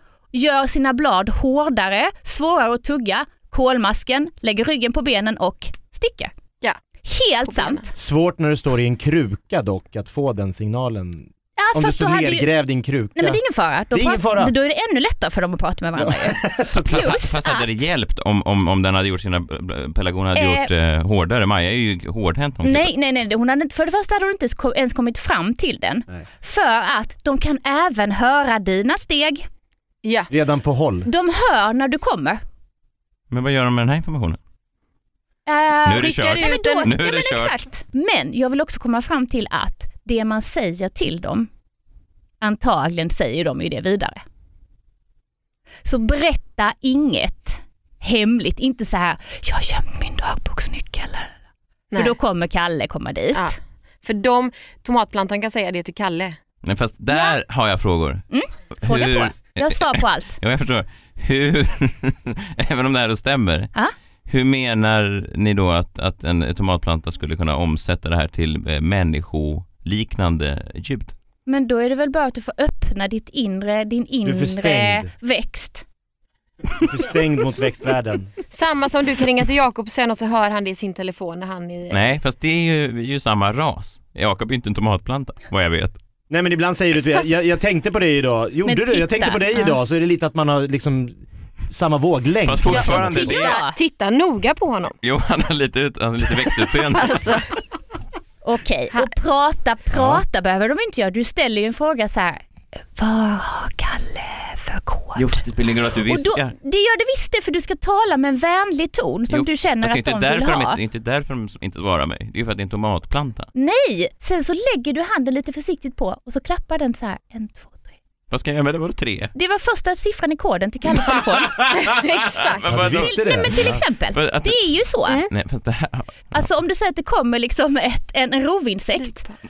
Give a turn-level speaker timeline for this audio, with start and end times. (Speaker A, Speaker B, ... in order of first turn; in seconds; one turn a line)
Speaker A: 0.3-6.3
Speaker A: 7.0-7.9
Speaker B: 7.5-7.9
Speaker C: 8.0-14.5
Speaker A: 11.6-12.5
Speaker A: 13.2-17.8
Speaker C: 16.0-17.1
Speaker D: 16.9-22.9
Speaker A: 20.3-20.7
Speaker A: 22.6-29.4
Speaker B: 30.0-30.3
Speaker C: 30.3-31.1
Speaker A: 31.1-32.4
Speaker D: 33.3-34.4
Speaker A: 35.5-41.5
Speaker B: 35.8-36.9
Speaker D: 35.9-37.6
Speaker A: 42.4-44.2
Speaker A: 45.8-51.3
Speaker A: 51.9-53.5
Speaker B: 53.3-56.4
Speaker D: 56.6-58.2
Speaker A: 57.1-57.4
Speaker A: 58.3-60.4
Speaker D: 58.8-63.7
Speaker D: 64.3-71.1
Speaker A: 71.5-75.8
Speaker C: 74.2-75.1
Speaker C: 76.8-78.3
Speaker B: 78.5-82.0
Speaker D: 81.9-86.0
Speaker C: 86.3-93.2
Speaker A: 88.6-89.8
Speaker D: 92.5-93.6
Speaker A: 92.7-93.8
Speaker B: 92.9-94.9
Speaker D: 95.0-97.2
Speaker B: 96.9-97.5
Speaker A: 98.4-105.4
Speaker D: 99.9-100.2
Speaker D: 105.2-106.5
Speaker A: 106.0-110.8
Speaker D: 109.3-113.5
Speaker A: 113.5-117.9
Speaker D: 118.3-119.3
Speaker A: 119.3-121.5
Speaker D: 121.4-121.9
Speaker B: 121.7-122.6
Speaker D: 122.4-124.6
Speaker C: 122.7-123.8
Speaker A: 122.9-125.2
Speaker D: 125.3-126.4
Speaker A: 126.3-129.2
Speaker B: 129.0-129.3